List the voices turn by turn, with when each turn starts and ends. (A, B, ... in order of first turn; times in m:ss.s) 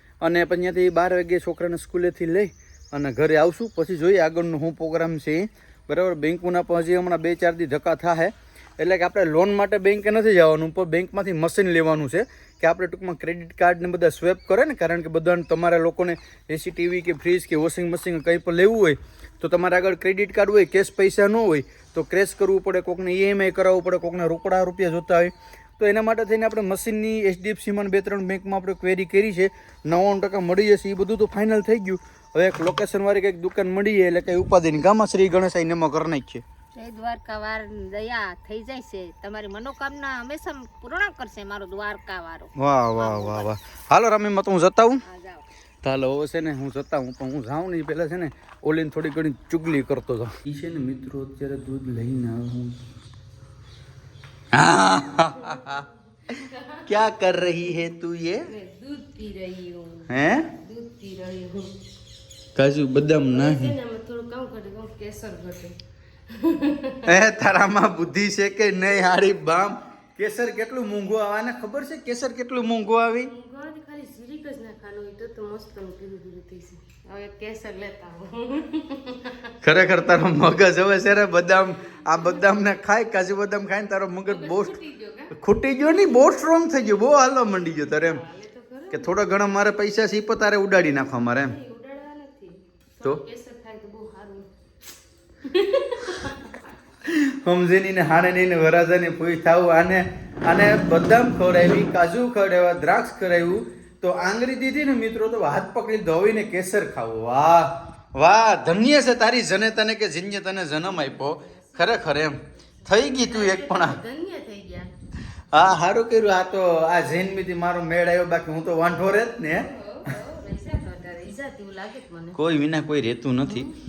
0:00.2-0:36.4 A
0:36.7-0:43.5 B
0:42.6-0:45.0 A
0:45.0-0:45.4 B
0:45.8-0:52.8 A
0:54.5-0:55.8 A
0:55.4-0:56.9 C
0:56.8-0:58.5 A
0:58.5-1:01.7 C
1:00.1-1:00.5 A
1:02.5-1:03.7 A
1:03.3-1:05.8 C
1:06.3-1:07.1 C
1:07.0-1:13.3 A
1:13.2-1:19.5 C
1:19.6-1:24.8 A
1:22.1-1:22.4 C
1:24.2-1:25.4 C
1:25.3-1:28.2 A
1:27.9-1:29.2 C
1:28.9-1:31.6 A
1:31.4-1:34.5 C
1:35.4-1:36.6 C
1:37.0-1:54.0 A
1:50.8-1:54.9 C
1:55.5-1:59.7 A
1:59.5-2:02.4 C
2:02.3-2:03.7 A
2:03.5-2:03.7 C